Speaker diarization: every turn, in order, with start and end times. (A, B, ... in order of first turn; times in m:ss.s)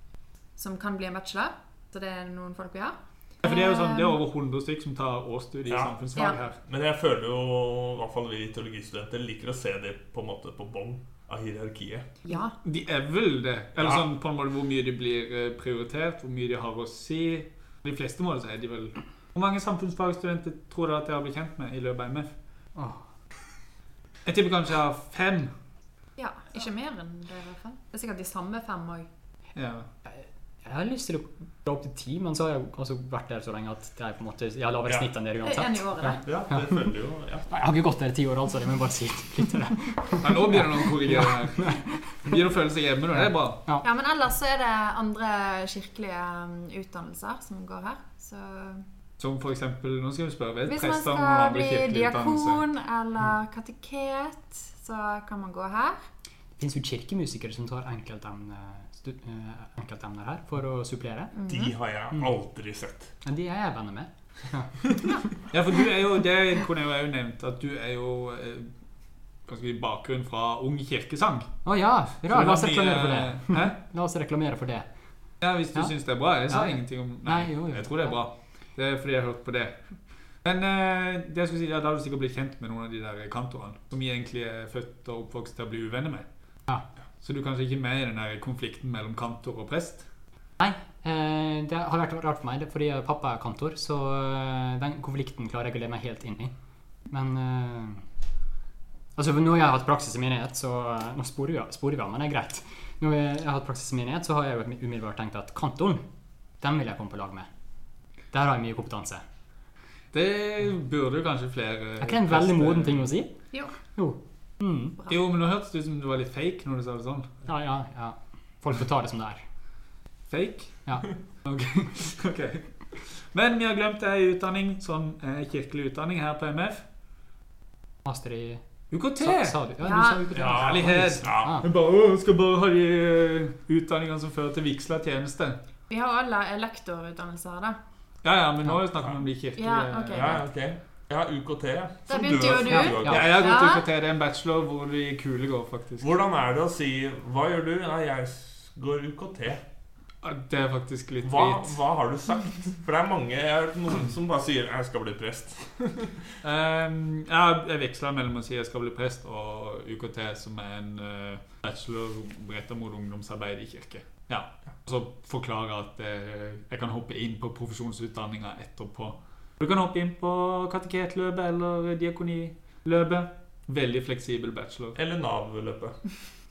0:00.6-0:04.2 A
0:03.4-0:06.6 B
0:05.7-0:06.0 C
0:06.6-0:12.1 C
0:12.3-0:12.5 A
0:12.6-0:22.3 B
0:22.8-0:23.0 D
0:24.2-0:25.5 B
0:26.2-0:29.1 A
0:29.5-0:29.9 B
0:30.1-0:36.8 D
0:35.4-0:36.3 A
0:36.2-0:37.5 C
0:37.5-0:42.4 D
0:40.2-0:43.6 B
0:43.2-0:43.8 D
0:43.8-0:48.8 A
0:49.2-0:52.6 B
0:50.7-0:56.0 A
0:56.6-1:01.3 D
1:01.3-1:01.7 A
1:01.5-1:03.1 C
1:03.2-1:04.8 D
1:05.5-1:08.7 B
1:09.5-1:11.5 B
1:11.6-1:14.9 D
1:12.3-1:13.8 B
1:15.4-1:19.8 B
1:16.5-1:18.2 D
1:20.4-1:26.2 B
1:27.2-1:30.0 B
1:30.6-1:36.5 D
1:37.1-1:38.0 D
1:39.2-1:46.0 D
1:46.6-1:47.5 D
1:48.3-1:49.2 D
1:50.1-1:53.1 B
1:52.0-1:53.3 D
1:53.9-1:55.0 D
1:55.1-1:57.3 B
1:57.5-1:59.4 D
2:00.3-2:00.8 B
2:00.9-2:02.1 D
2:02.0-2:06.8 B
2:08.0-2:08.6 D
2:08.9-2:09.6 B
2:09.2-2:11.6 D
2:09.8-2:10.6 A
2:10.3-2:11.6 C
2:10.4-2:15.6 B
2:15.9-2:17.8 A
2:18.2-2:20.4 B
2:19.6-2:20.4 A
2:20.1-2:23.3 C
2:22.1-2:23.8 A
2:22.8-2:23.2 D
2:22.9-2:26.1 B
2:26.0-2:29.6 C
2:30.2-2:31.8 B
2:31.2-2:36.2 C
2:36.4-2:55.0 B
2:55.0-2:56.0 C